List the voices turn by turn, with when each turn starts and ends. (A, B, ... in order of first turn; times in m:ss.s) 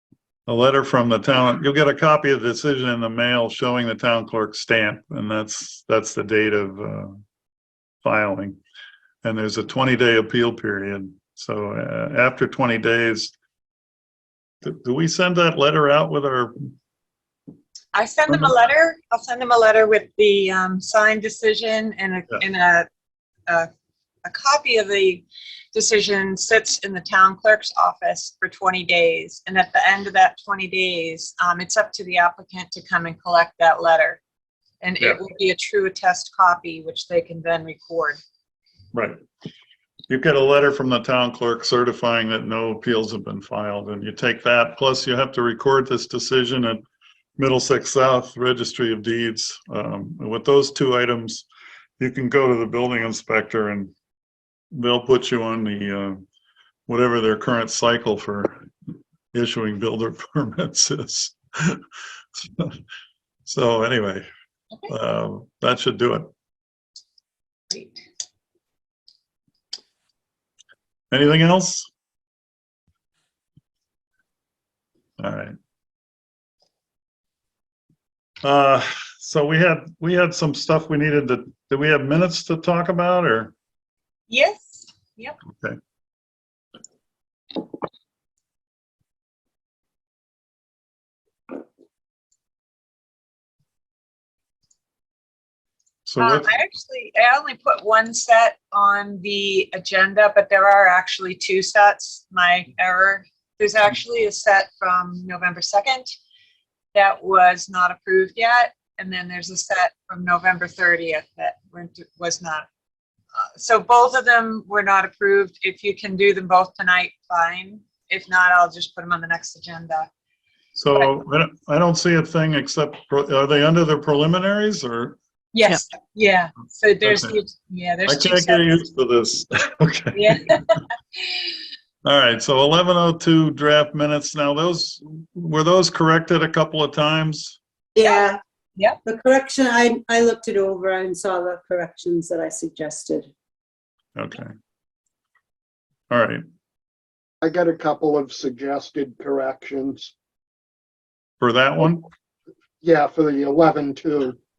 0:00.5-0:07.2 A
0:08.0-0:08.6 A
0:09.2-0:13.3 A
0:14.6-0:16.6 A
0:17.9-0:22.9 B
0:24.2-0:34.2 B
0:34.8-0:38.2 B
0:38.9-0:39.2 A
0:40.1-0:46.8 A
0:47.4-0:51.5 A
0:52.0-0:53.9 A
0:54.7-0:56.2 A
0:56.9-0:58.6 A
0:59.3-1:01.8 A
1:02.4-1:02.8 A
1:03.5-1:04.3 A
1:04.9-1:06.3 A
1:07.7-1:08.0 B
1:11.1-1:11.9 A
1:15.2-1:15.6 A
1:18.4-1:23.5 A
1:24.3-1:25.4 B
1:36.1-1:36.5 A
1:36.2-1:46.1 B
1:46.9-1:52.7 B
1:53.4-2:00.1 B
2:00.8-2:05.2 A
2:05.5-2:08.8 B
2:07.0-2:07.4 A
2:08.1-2:10.2 A
2:10.1-2:11.5 B
2:12.0-2:17.6 A
2:18.0-2:18.4 C
2:18.0-2:19.0 B
2:19.0-2:23.3 C
2:24.2-2:24.5 A
2:26.1-2:26.4 A
2:27.4-2:30.1 D
2:31.4-2:32.0 A
2:32.8-2:34.4 D